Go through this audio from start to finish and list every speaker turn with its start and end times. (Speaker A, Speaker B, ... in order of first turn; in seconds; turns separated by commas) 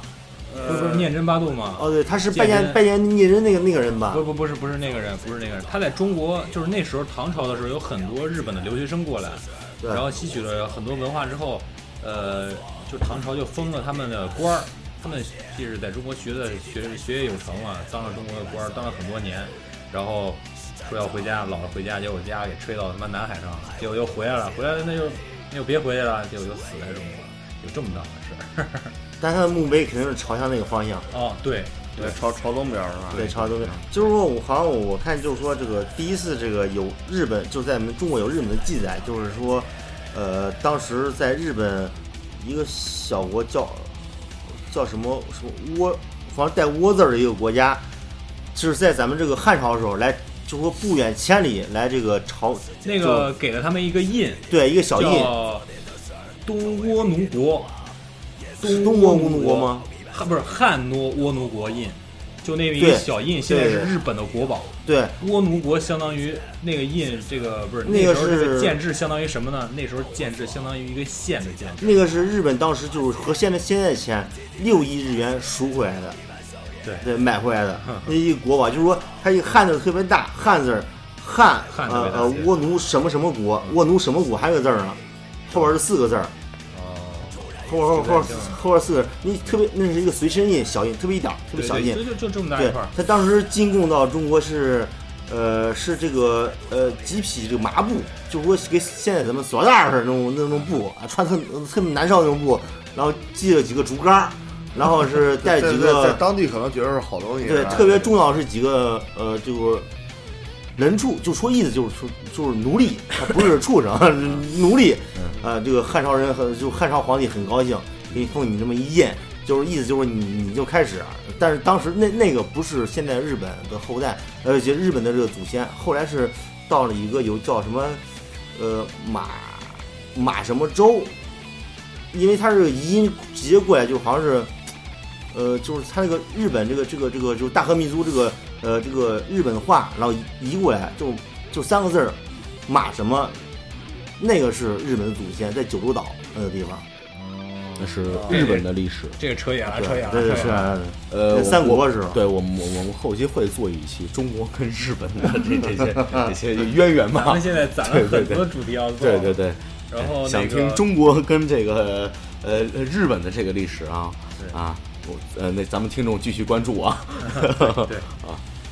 Speaker A: 0.5-2.8, Speaker B: 0.6-1.1, Speaker B: 1.8-4.2, Speaker A: 4.1-28.9, Speaker B: 29.2-31.1, Speaker A: 31.1-32.2, Speaker C: 32.0-33.8, Speaker A: 33.1-33.8, Speaker B: 33.1-47.9, Speaker B: 48.5-53.3, Speaker A: 52.8-55.7, Speaker B: 54.5-55.3, Speaker A: 56.5-57.7, Speaker B: 58.6-59.9, Speaker A: 58.6-72.0, Speaker B: 62.8-63.9, Speaker B: 64.8-65.2, Speaker B: 67.8-68.8, Speaker B: 71.8-76.2, Speaker A: 76.8-77.1, Speaker B: 77.0-86.3, Speaker A: 77.8-78.1, Speaker A: 81.7-82.6, Speaker A: 86.7-88.6, Speaker B: 87.6-106.2, Speaker A: 91.5-93.0, Speaker C: 105.3-108.1, Speaker B: 107.4-109.9, Speaker B: 110.8-128.0, Speaker B: 128.5-131.2, Speaker B: 132.1-134.5, Speaker B: 135.3-143.4, Speaker B: 144.2-146.9, Speaker A: 147.1-150.8, Speaker D: 147.8-149.2, Speaker C: 148.1-148.4, Speaker B: 149.8-152.2, Speaker D: 151.1-168.4, Speaker A: 157.1-159.4, Speaker A: 159.9-160.8, Speaker A: 167.2-168.1